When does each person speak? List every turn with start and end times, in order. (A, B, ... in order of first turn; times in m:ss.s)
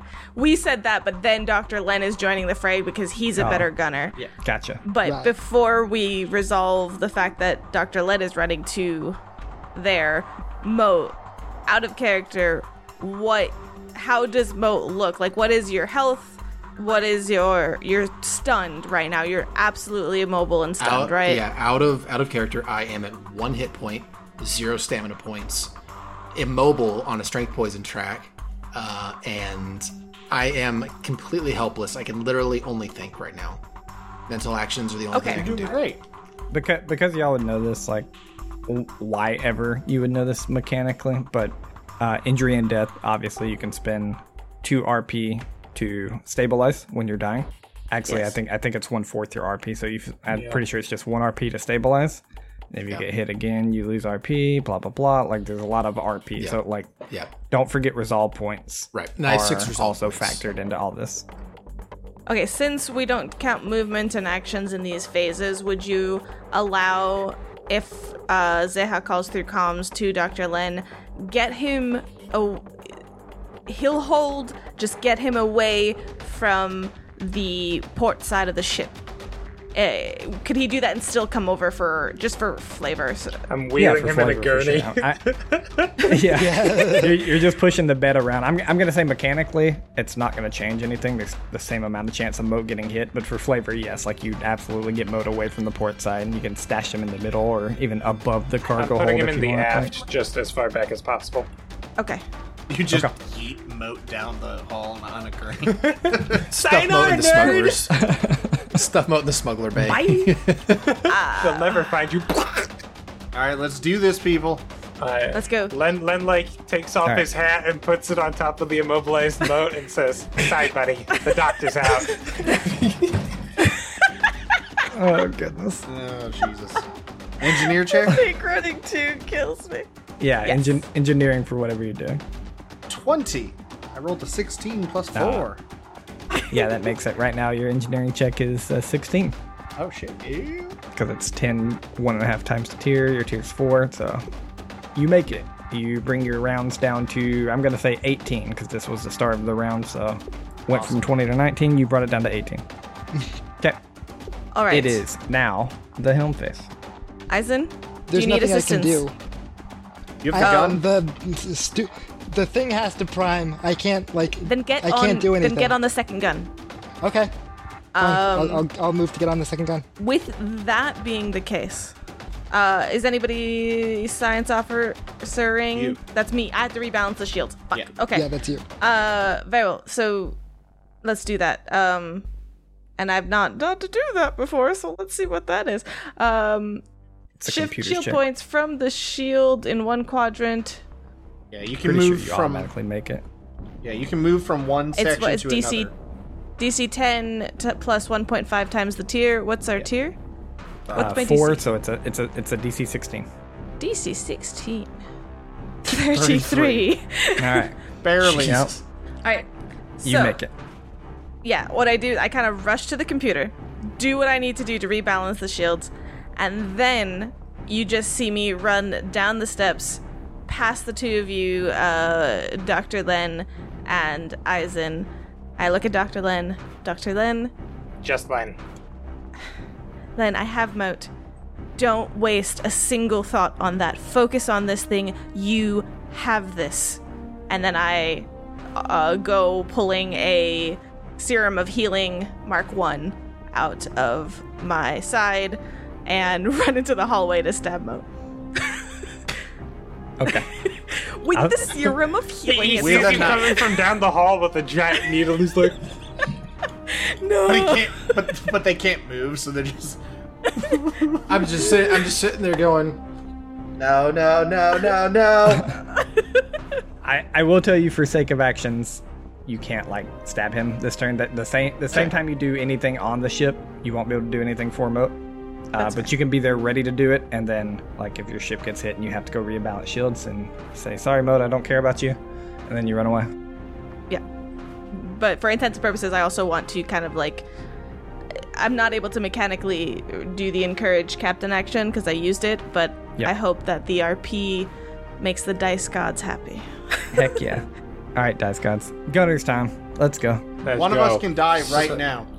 0:00.4-0:04.2 A
0:03.4-0:03.7 B
0:04.4-0:04.8 B
0:04.8-0:09.2 A
0:05.0-0:05.3 C
0:09.7-0:11.2 A
0:11.7-0:21.4 A
0:20.8-0:25.7 D
0:26.3-0:33.6 D
0:34.3-0:35.8 D
0:35.1-0:35.5 A
0:35.3-0:36.0 E
0:36.5-0:38.1 B
0:38.7-1:01.2 B
0:50.3-0:50.6 F
0:58.9-1:00.4 D
1:02.3-1:12.6 A
1:13.7-1:18.9 A
1:19.7-1:23.4 A
1:23.5-1:26.1 F
1:23.8-1:25.2 B
1:26.0-1:40.0 B
1:26.3-1:27.3 C
1:38.7-1:41.5 F
1:42.0-1:42.2 A
1:42.7-1:46.4 E
1:46.4-1:48.1 D
1:46.5-1:47.8 F
1:47.9-1:48.7 B
1:48.7-1:51.0 D
1:49.8-1:52.7 F
1:51.1-1:51.8 A
1:53.3-1:54.6 E
1:55.0-2:02.2 F
1:55.3-1:55.7 A
1:57.0-1:57.3 B
2:04.9-2:05.8 B
2:05.9-2:06.8 E
2:07.4-2:08.2 E
2:07.8-2:09.9 A
2:10.2-2:12.2 B
2:10.4-2:10.8 A
2:12.9-2:15.6 E
2:15.1-2:15.5 B
2:16.4-2:16.6 A
2:16.5-2:19.4 B
2:19.8-2:20.8 E
2:20.9-2:24.2 B
2:24.9-2:32.6 B
2:30.7-2:31.0 E
2:34.5-2:35.0 A
2:34.7-2:36.7 B
2:37.3-2:39.0 A
2:38.1-2:39.1 C
2:40.2-2:40.8 E
2:40.3-2:45.7 C
2:40.4-2:40.8 A
2:44.4-2:46.5 A
2:47.0-2:47.3 C
2:47.9-2:48.6 A
2:48.0-2:49.8 C
2:50.0-2:51.9 A
2:52.5-2:58.3 A
2:58.1-2:58.6 C
2:58.8-3:00.4 A
3:01.0-3:02.3 A
3:03.0-3:06.8 A
3:07.4-3:08.2 B
3:07.4-3:10.8 A
3:11.5-3:12.7 E
3:11.8-3:13.2 B
3:13.8-3:15.9 E
3:14.9-3:15.9 A
3:16.6-3:20.2 A
3:20.9-3:21.2 E
3:20.9-3:21.6 A
3:20.9-3:23.3 B
3:23.8-3:25.0 A
3:25.8-3:27.7 A
3:26.0-3:26.9 E
3:27.4-3:28.7 B
3:28.0-3:28.7 E
3:28.2-3:28.8 D
3:30.0-3:30.4 A
3:30.0-3:30.5 B
3:31.4-3:47.5 A
3:48.0-3:48.6 F
3:50.2-3:51.1 A
3:51.8-4:08.0 A
4:08.6-4:08.8 A
4:10.2-4:10.5 B
4:10.3-4:13.6 A
4:11.3-4:12.0 B
4:12.4-4:15.8 F
4:12.8-4:13.7 E
4:16.9-4:18.3 A
4:17.5-4:20.0 E
4:20.6-4:21.4 E
4:21.3-4:23.0 D
4:23.8-4:25.7 D
4:27.0-4:35.2 B
4:35.7-4:43.3 B
4:35.8-4:36.1 A
4:44.9-4:47.4 A
4:48.6-4:57.4 A
4:57.1-5:00.4 B
5:00.6-5:02.0 F
5:00.7-5:02.3 E